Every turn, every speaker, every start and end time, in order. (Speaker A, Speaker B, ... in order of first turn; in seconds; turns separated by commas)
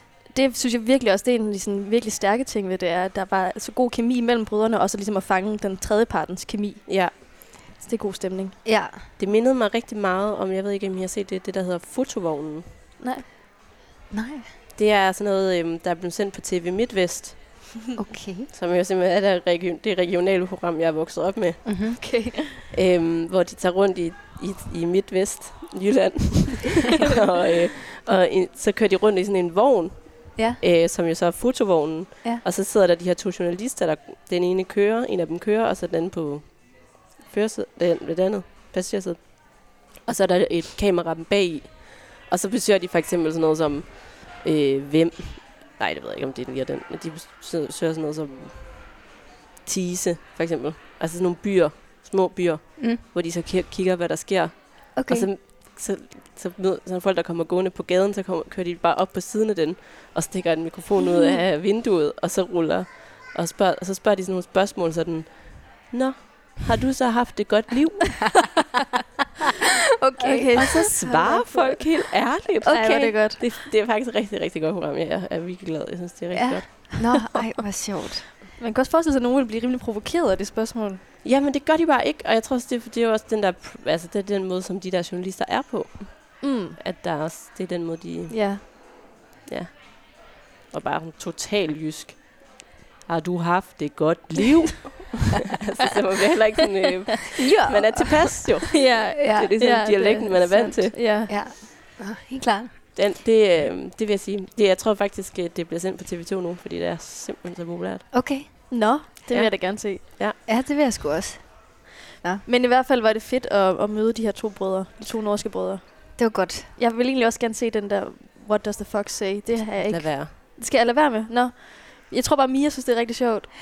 Speaker A: 0.3-8.6, Speaker B: 6.9-7.1, Speaker C: 8.7-9.1, Speaker B: 9.2-12.7, Speaker A: 13.0-13.2, Speaker C: 14.1-14.5, Speaker B: 14.8-17.7, Speaker C: 17.9-18.5, Speaker B: 18.5-21.7, Speaker C: 21.6-22.4, Speaker B: 22.7-49.0, Speaker C: 30.4-30.6, Speaker B: 49.6-68.6, Speaker C: 55.0-55.3, Speaker C: 70.0-70.9, Speaker A: 70.2-71.8, Speaker B: 70.6-77.1, Speaker C: 72.7-73.1, Speaker A: 72.7-73.4, Speaker C: 76.3-78.3, Speaker A: 78.6-81.0, Speaker B: 81.2-101.0, Speaker A: 86.4-86.8, Speaker A: 88.3-88.6, Speaker C: 97.4-98.5, Speaker A: 98.7-101.3, Speaker C: 99.2-99.8, Speaker C: 101.3-102.8, Speaker B: 103.0-108.7, Speaker C: 108.1-108.5, Speaker A: 108.7-110.0, Speaker B: 109.3-110.4, Speaker C: 110.5-112.4, Speaker A: 112.5-123.5, Speaker C: 116.2-116.7, Speaker B: 119.8-120.3